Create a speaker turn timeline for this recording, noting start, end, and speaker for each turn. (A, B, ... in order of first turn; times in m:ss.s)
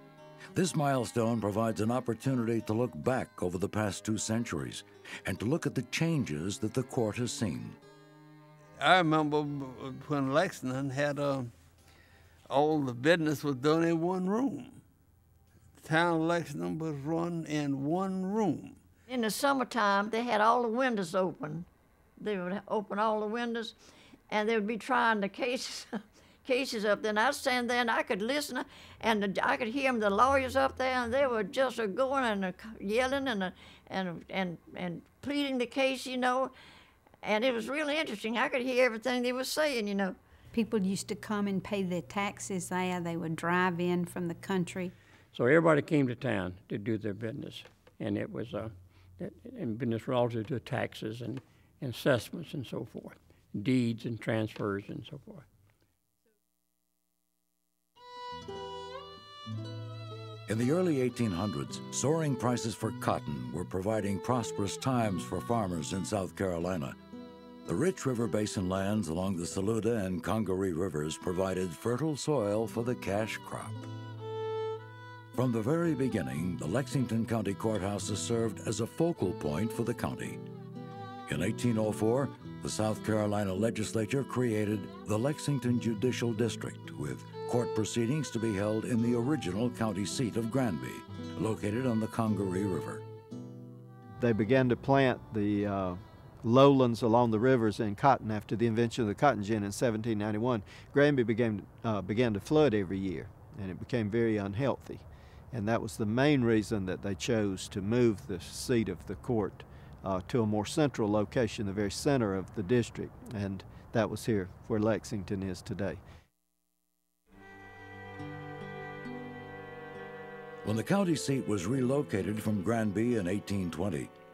0:00.5-0:07.8 A
0:08.8-0:11.5 B
0:12.5-0:14.8 B
0:15.8-0:18.8 B
0:19.1-0:21.7 C
0:22.2-0:23.8 C
0:24.3-0:36.5 C
0:37.2-0:40.2 C
0:40.5-0:44.9 D
0:45.3-0:55.4 E
1:00.5-1:07.0 A
1:07.7-1:13.9 A
1:15.3-1:20.4 A
1:21.3-1:33.0 A
1:34.2-1:56.0 F
2:00.6-2:04.1 A